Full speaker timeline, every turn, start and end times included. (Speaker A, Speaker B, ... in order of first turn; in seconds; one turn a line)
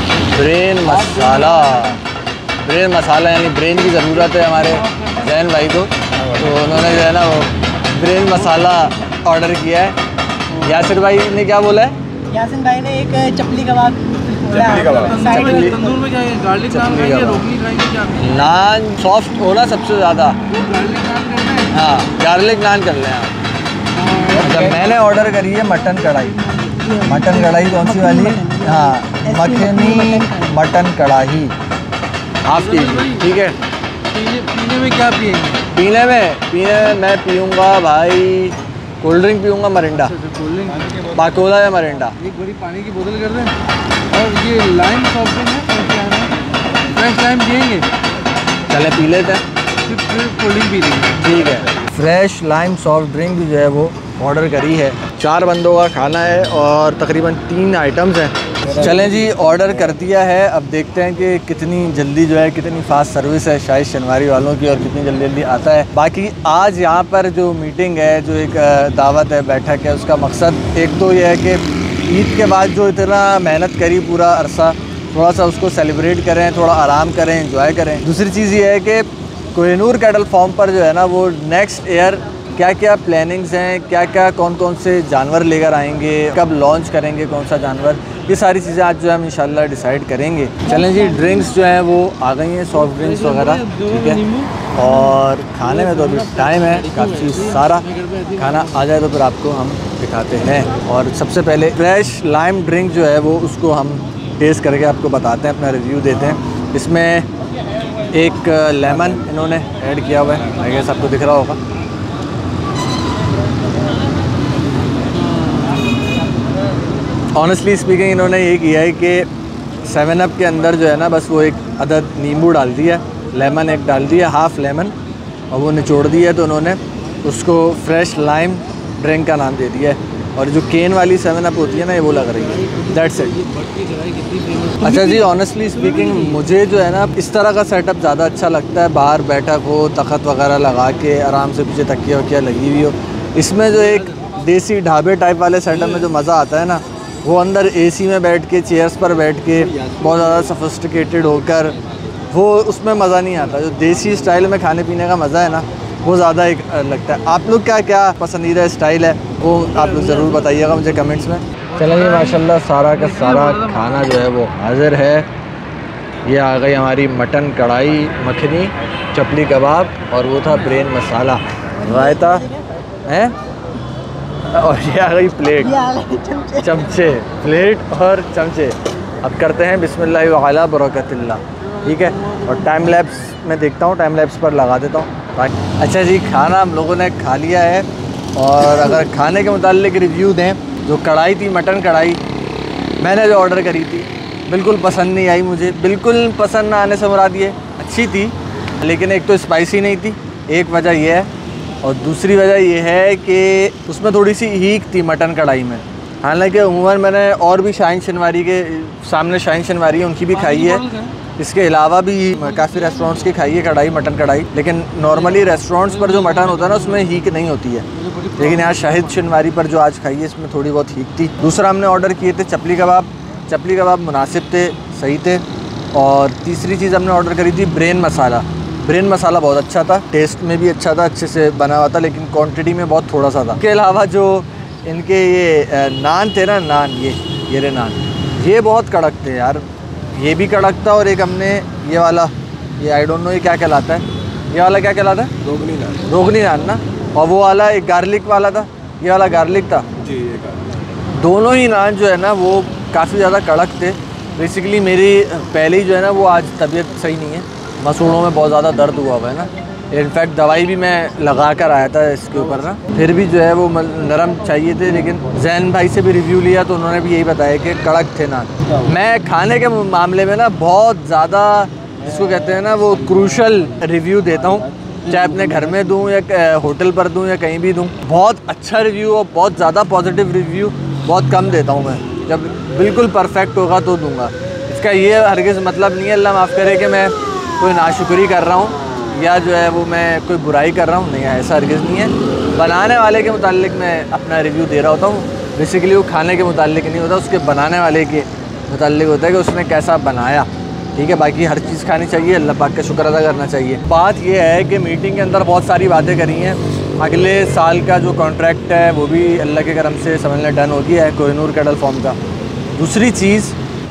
Speaker A: 0.1-2.0
Speaker B: 1.3-1.6
Speaker A: 2.6-9.9
Speaker A: 10.6-11.9
Speaker C: 12.3-16.0
Speaker B: 14.6-18.2
Speaker A: 15.3-15.8
Speaker A: 16.6-17.5
Speaker A: 18.1-20.4
Speaker B: 20.5-21.7
Speaker A: 21.7-23.3
Speaker B: 24.0-24.8
Speaker A: 24.3-26.4
Speaker C: 26.8-30.5
Speaker A: 27.0-31.5
Speaker A: 32.4-33.5
Speaker B: 32.7-33.2
Speaker B: 34.1-35.6
Speaker A: 35.7-40.2
Speaker B: 40.2-41.0
Speaker A: 41.1-42.1
Speaker B: 42.2-43.5
Speaker B: 44.1-47.9
Speaker A: 48.7-49.4
Speaker B: 49.9-51.2
Speaker A: 51.1-107.3
Speaker B: 93.3-94.5
Speaker B: 96.1-97.4
Speaker B: 97.9-98.4
Speaker A: 108.1-111.6
Speaker A: 117.3-119.2
Speaker A: 119.8-124.9
Speaker A: 125.5-133.4
Speaker B: 133.2-135.1
Speaker A: 134.8-151.8
Speaker A: 152.3-165.3
Speaker A: 166.2-172.5
Speaker C: 171.8-172.6
Speaker A: 173.1-173.3
Speaker A: 174.5-176.0
Speaker C: 175.6-176.8
Speaker A: 176.6-192.2
Speaker A: 193.0-201.3
Speaker A: 201.8-217.8
Speaker B: 210.5-211.1
Speaker B: 216.2-216.7
Speaker B: 218.2-218.6
Speaker A: 218.3-245.3
Speaker A: 245.9-249.9
Speaker A: 251.1-312.2
Speaker A: 312.7-313.6